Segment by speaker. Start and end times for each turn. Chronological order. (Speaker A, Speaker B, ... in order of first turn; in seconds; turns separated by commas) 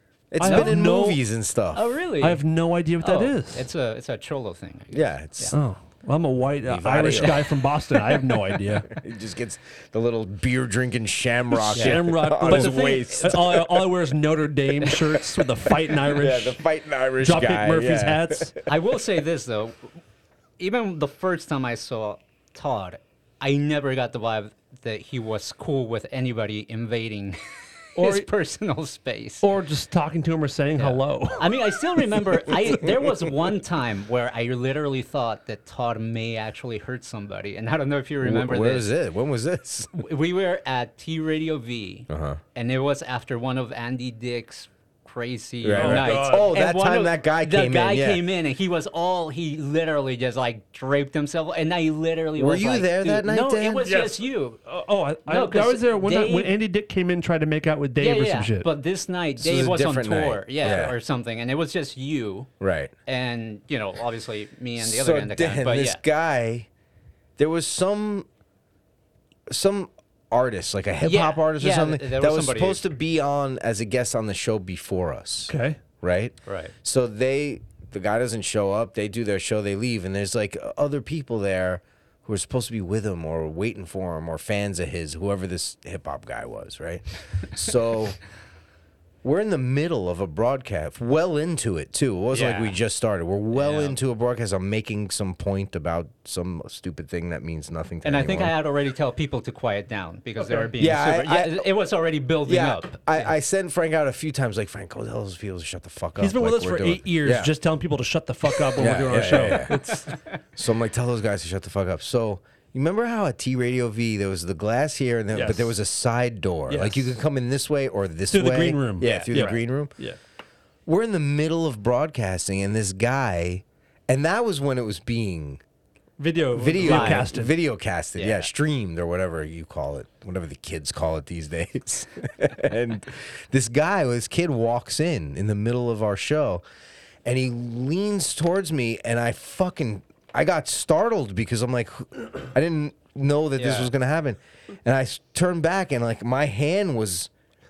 Speaker A: 0.3-1.9, Speaker B: 0.4-1.2, Speaker C: 0.4-0.8, Speaker C: 1.7-2.4, Speaker B: 2.2-3.6, Speaker C: 3.0-5.5, Speaker A: 4.9-5.5, Speaker B: 5.5-8.9, Speaker A: 6.6-14.0, Speaker B: 11.5-16.6, Speaker C: 11.7-13.0, Speaker A: 14.8-18.6, Speaker B: 17.2-18.5, Speaker C: 18.7-19.9, Speaker C: 20.6-27.4, Speaker B: 27.9-28.3, Speaker C: 27.9-29.4, Speaker B: 29.4-31.5, Speaker C: 30.8-38.9, Speaker A: 38.2-39.9, Speaker C: 39.9-54.6, Speaker A: 42.1-42.4, Speaker A: 45.6-48.2, Speaker B: 45.7-46.5, Speaker A: 52.4-53.9, Speaker B: 53.8-58.7, Speaker C: 55.3-56.5, Speaker C: 58.0-62.5, Speaker A: 59.4-61.0, Speaker A: 62.6-62.9, Speaker C: 63.0-66.0, Speaker A: 64.8-66.7, Speaker A: 67.4-68.3, Speaker A: 69.5-88.2, Speaker C: 71.0-72.9, Speaker B: 75.5-75.8, Speaker C: 76.5-76.7, Speaker A: 89.2-98.5, Speaker C: 92.3-92.8, Speaker C: 93.5-94.0, Speaker C: 98.0-103.3, Speaker B: 100.4-100.7, Speaker A: 100.8-101.7, Speaker A: 102.5-107.5, Speaker B: 106.2-110.1, Speaker A: 108.7-109.8, Speaker C: 109.5-110.4, Speaker A: 110.5-119.9, Speaker B: 115.3-115.7, Speaker B: 116.7-117.1, Speaker B: 118.3-120.2, Speaker C: 119.0-119.3, Speaker A: 120.8-125.6, Speaker B: 126.2-127.5, Speaker A: 126.5-136.6, Speaker C: 126.8-127.3, Speaker C: 128.2-128.5, Speaker A: 137.2-147.3, Speaker C: 143.6-143.9